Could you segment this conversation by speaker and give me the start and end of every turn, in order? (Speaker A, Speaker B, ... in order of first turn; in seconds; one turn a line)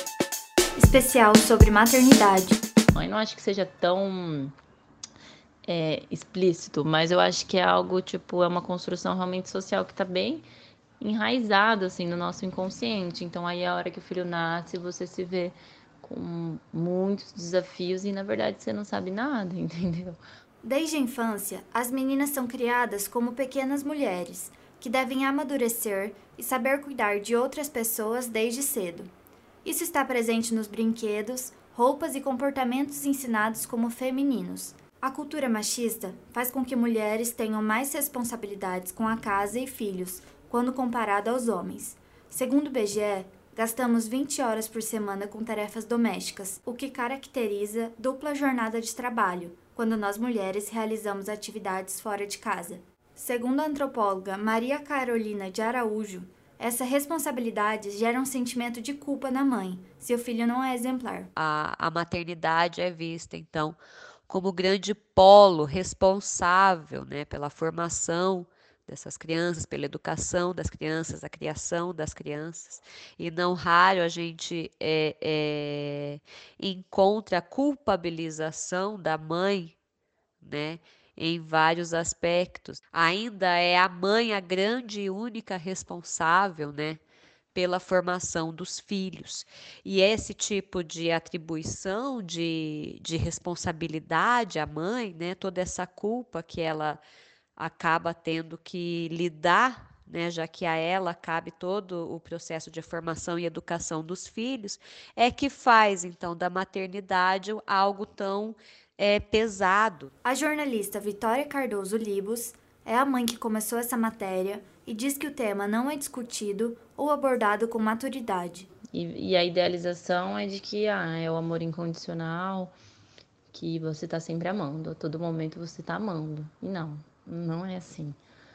Speaker A: 0.8-2.6
Speaker B: 2.9-4.5
Speaker B: 5.7-10.4
Speaker B: 11.0-20.2
Speaker A: 20.6-29.1
Speaker A: 29.6-61.3
Speaker C: 61.4-79.7
Speaker C: 80.4-87.0
Speaker C: 87.5-97.0
Speaker C: 97.6-110.1
Speaker A: 110.2-118.7
Speaker B: 118.9-122.7
Speaker B: 123.5-128.2